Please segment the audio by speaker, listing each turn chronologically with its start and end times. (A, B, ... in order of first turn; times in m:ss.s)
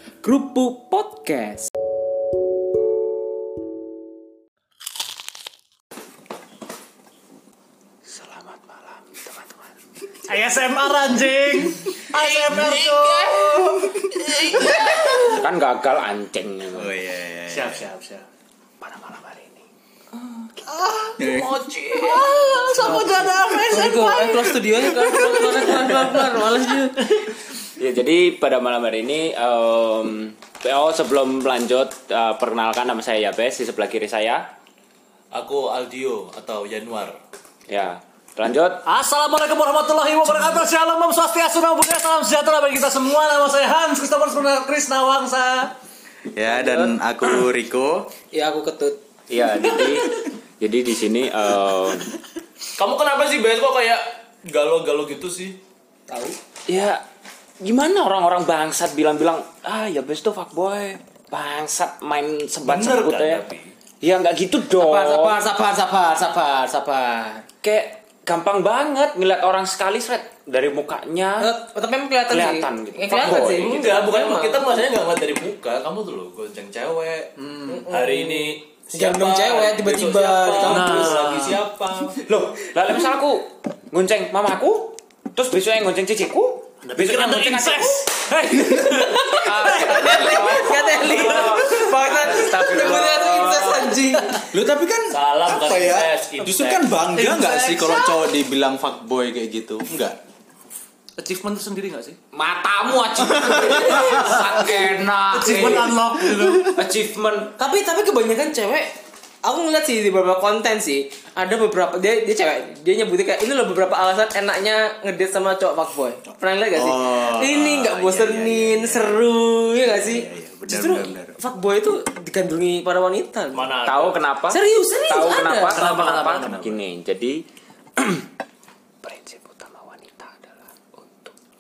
0:00.2-0:01.7 A
0:08.1-0:09.5 B
0:10.3-0:14.7 C
0:12.2-0:13.5 B
0:13.2-0:15.0 D
0:14.7-0:17.0 B
0:16.8-0:17.9 D
0:17.5-0:18.2 C
0:18.8-0:19.4 B
0:20.6-0:21.3 C
0:21.2-0:21.5 D
0:21.2-0:22.2 E
0:21.9-0:26.4 C
0:22.8-0:27.2 A
0:27.8-0:34.5 B
0:35.3-0:37.2 E
0:37.7-0:38.8 B
0:38.9-0:45.7 C
0:46.3-0:48.1 D
0:46.5-0:47.0 A
0:48.3-0:49.0 A
0:49.3-0:52.1 B
0:52.8-0:55.6 E
0:56.1-0:56.4 A
0:56.7-0:57.0 B
0:57.6-1:03.4 B
1:02.7-1:03.8 E
1:04.0-1:05.4 B
1:04.8-1:07.4 A
1:07.6-1:11.5 B
1:11.4-1:14.7 A
1:12.3-1:13.9 B
1:13.2-1:22.2 E
1:17.4-1:17.8 C
1:17.7-1:21.4 A
1:20.6-1:21.6 C
1:22.2-1:28.1 B
1:26.8-1:31.6 C
1:28.6-1:34.4 A
1:29.4-1:34.0 B
1:34.4-1:40.2 D
1:35.1-1:37.0 E
1:37.1-1:38.2 C
1:41.2-1:42.2 C
1:42.3-1:46.0 B
1:44.1-1:44.4 C
1:45.3-1:46.8 C
1:46.5-1:47.5 B
1:47.6-1:48.9 A
1:49.4-2:03.7 A
1:56.8-1:59.2 D
1:59.8-2:01.4 D
2:03.5-2:04.2 E
2:03.8-2:07.4 B
2:04.5-2:05.9 A
2:05.7-2:06.8 C
2:08.0-2:08.3 B
2:09.0-2:11.3 B